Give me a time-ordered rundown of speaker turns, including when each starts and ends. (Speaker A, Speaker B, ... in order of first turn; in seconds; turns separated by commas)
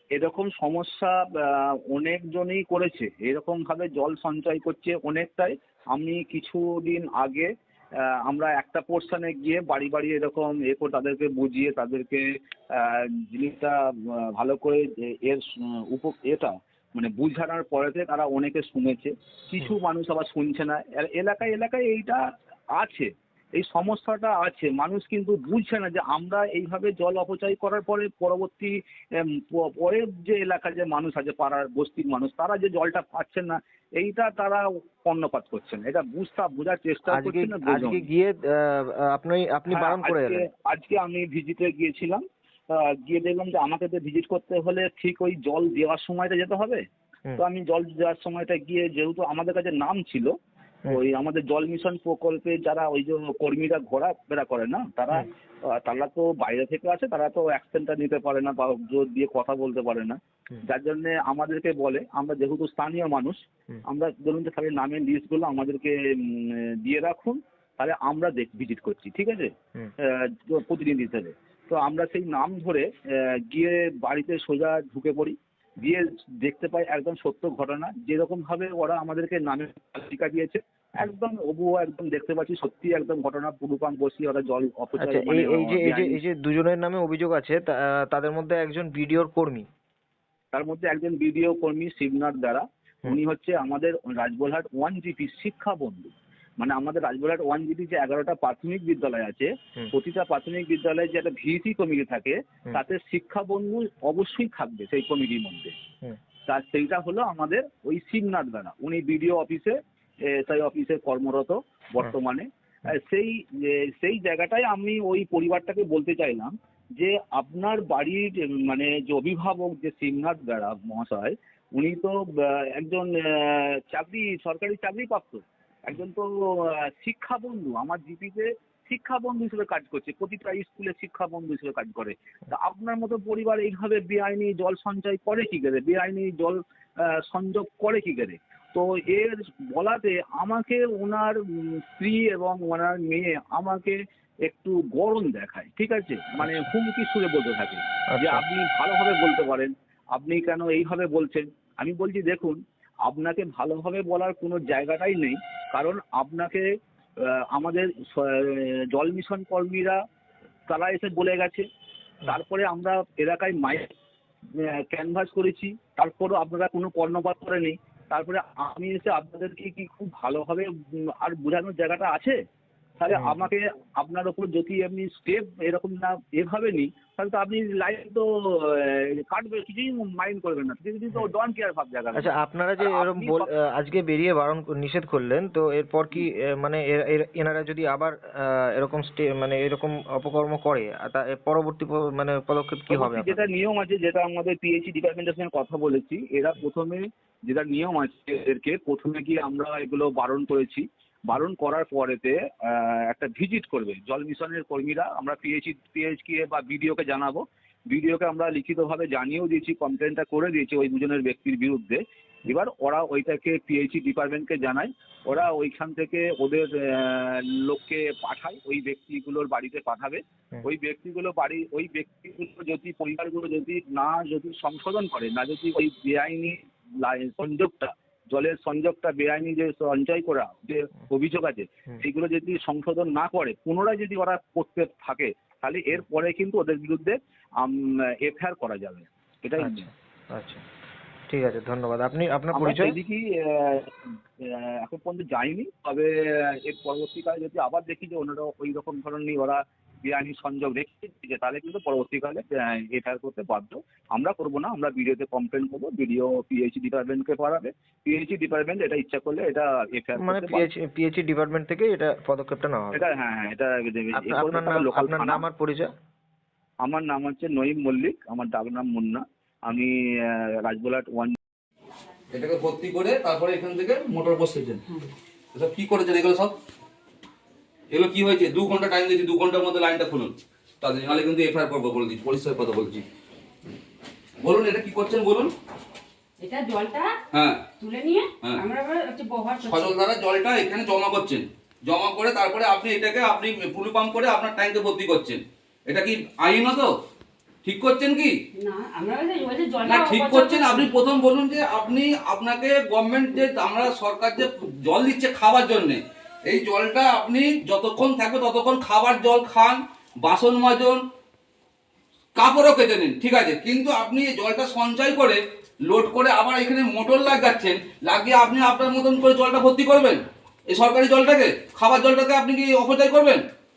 Speaker A: 0.1-7.5, Speaker A: 8.0-22.2, Speaker A: 22.8-38.0, Speaker B: 37.1-40.4, Speaker A: 39.7-46.8, Speaker A: 47.4-50.3, Speaker A: 50.9-69.5, Speaker A: 70.1-86.2, Speaker B: 85.0-89.7, Speaker A: 90.5-105.7, Speaker A: 106.5-156.6, Speaker B: 146.4-146.7, Speaker B: 148.1-148.4, Speaker A: 157.5-160.0, Speaker A: 160.7-161.6, Speaker A: 162.2-163.9, Speaker A: 164.9-172.4, Speaker A: 173.0-183.5, Speaker B: 173.1-173.4, Speaker B: 182.1-193.4, Speaker A: 192.9-239.9, Speaker B: 239.6-240.6, Speaker B: 241.3-242.9, Speaker A: 242.5-260.6, Speaker B: 260.2-263.0, Speaker A: 262.9-265.4, Speaker B: 264.1-265.9, Speaker A: 266.8-271.4, Speaker C: 272.3-274.8, Speaker C: 275.5-276.5, Speaker C: 277.9-283.0, Speaker C: 284.4-285.5, Speaker D: 286.4-287.2, Speaker C: 287.3-287.7, Speaker D: 287.8-290.0, Speaker C: 289.6-296.9, Speaker C: 297.6-298.3, Speaker D: 298.6-300.9, Speaker C: 299.8-311.0, Speaker C: 312.4-323.4